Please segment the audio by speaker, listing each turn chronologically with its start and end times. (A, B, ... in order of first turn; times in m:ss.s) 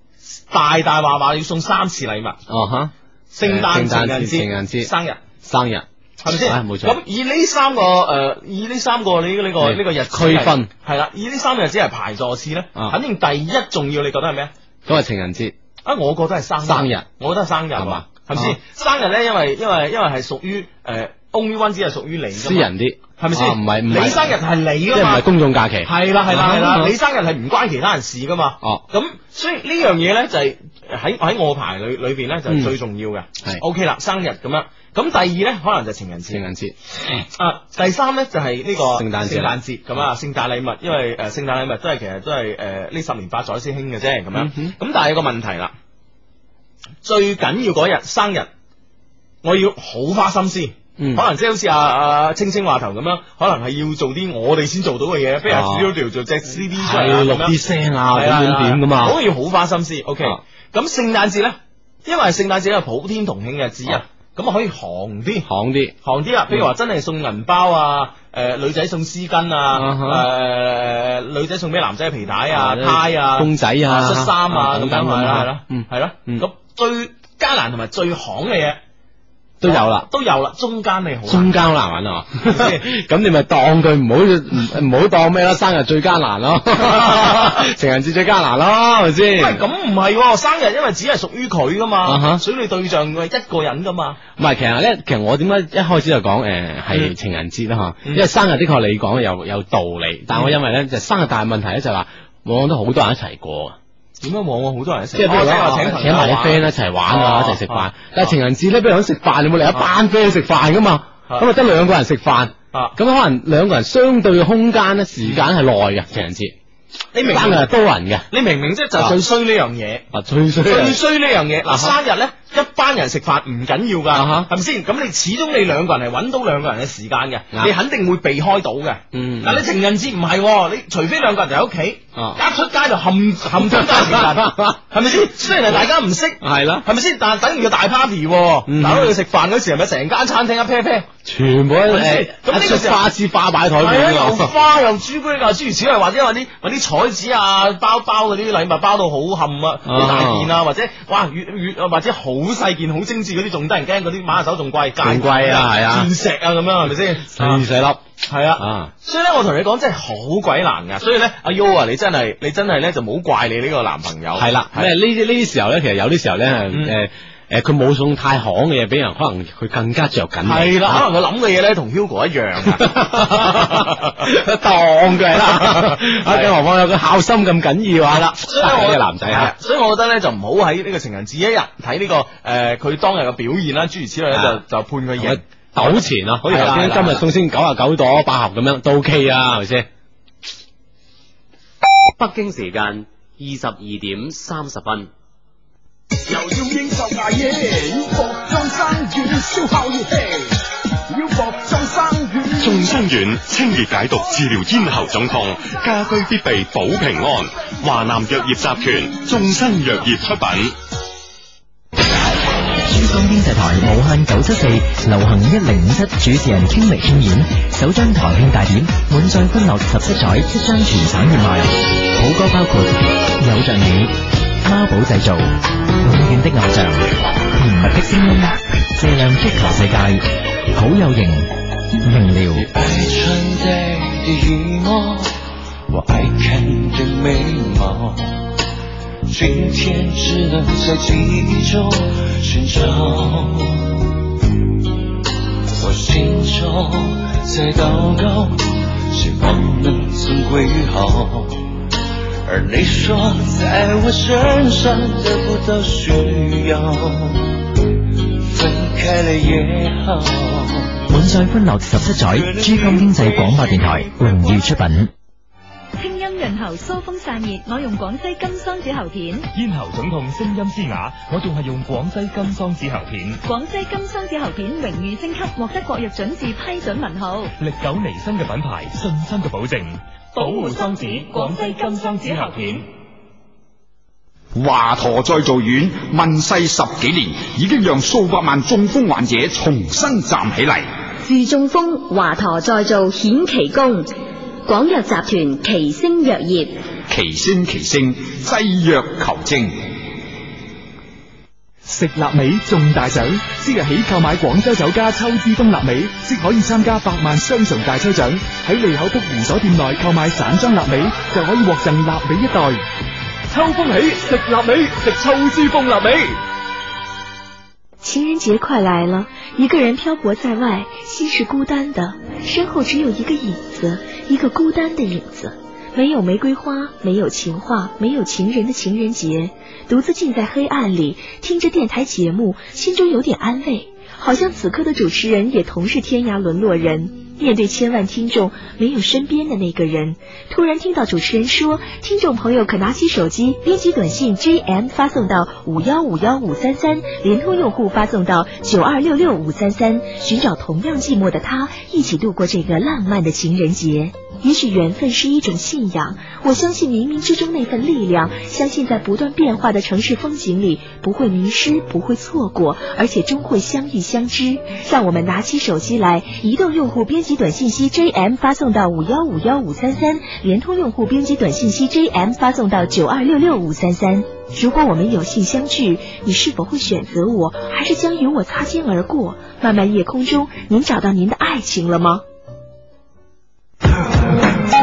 0:00.2-0:02.4 A
0:02.5-0:07.0 B
0:03.3-0:05.2 A
0:06.2-0:14.5 A
0:09.6-0:10.7 B
0:14.8-0:15.5 B
0:15.8-0:25.2 A
0:16.6-0:17.0 B
0:17.7-0:18.6 B
0:22.4-0:24.4 B
0:24.9-0:26.9 B
0:25.8-0:36.4 A
0:32.5-0:32.7 B
0:36.3-0:37.2 B
0:37.3-0:45.7 A
0:38.9-0:39.6 B
0:44.3-0:44.7 B
0:47.0-0:48.5 A
0:49.4-0:57.5 A
0:51.0-0:51.2 B
0:55.4-0:55.9 B
0:56.6-0:59.2 B
0:58.1-1:05.5 A
1:05.4-1:05.9 B
1:06.0-1:18.8 A
1:09.7-1:10.3 B
1:12.5-1:16.4 B
1:19.6-1:20.1 B
1:19.6-1:21.6 A
1:21.3-1:29.6 B
1:22.4-1:22.8 A
1:26.8-1:27.5 A
1:29.4-1:34.2 A
1:32.0-1:32.4 B
1:34.4-1:43.8 B
1:44.2-1:48.3 A
1:45.1-1:56.5 B
1:57.1-1:57.7 A
1:57.2-1:58.3 B
1:58.3-2:00.1 A
2:00.1-2:01.0 B
2:00.6-2:21.1 A
2:01.7-2:01.9 B
2:04.1-2:04.5 B
2:09.1-2:09.6 B
2:13.6-2:14.8 B
2:16.4-2:16.8 B
2:18.7-2:19.1 B
2:21.2-2:24.5 B
2:21.9-2:23.0 A
2:23.8-2:37.6 A
2:29.8-2:30.5 B
2:35.0-2:36.1 B
2:37.1-2:38.0 B
2:38.2-2:44.9 A
2:38.6-2:38.9 B
2:44.3-2:51.0 B
2:46.7-2:47.0 A
2:50.4-2:54.2 A
2:52.8-2:59.5 B
2:55.4-2:56.5 A
2:58.1-3:07.2 A
3:04.3-3:04.6 B
3:05.2-3:09.9 B
3:12.2-3:15.1 C
3:16.3-3:22.7 D
3:22.6-3:30.8 E
3:32.8-3:51.5 F
3:52.0-3:52.7 F
3:52.5-3:55.3 G
3:55.9-3:58.4 G
3:59.3-4:04.0 G
4:05.8-4:11.6 G
4:12.4-4:17.6 G
4:18.4-4:21.0 G
4:21.1-4:25.1 F
4:22.2-4:24.6 G
4:26.0-4:29.4 H
4:29.5-4:33.4 I
4:33.4-4:37.5 H
4:37.6-4:42.8 I
4:40.4-4:42.7 H
4:44.5-4:50.9 D
4:51.2-4:54.1 J
4:54.6-4:56.8 J
4:57.1-4:59.8 D
5:01.8-5:12.8 K
5:13.5-5:16.4 K
5:18.0-6:22.2 L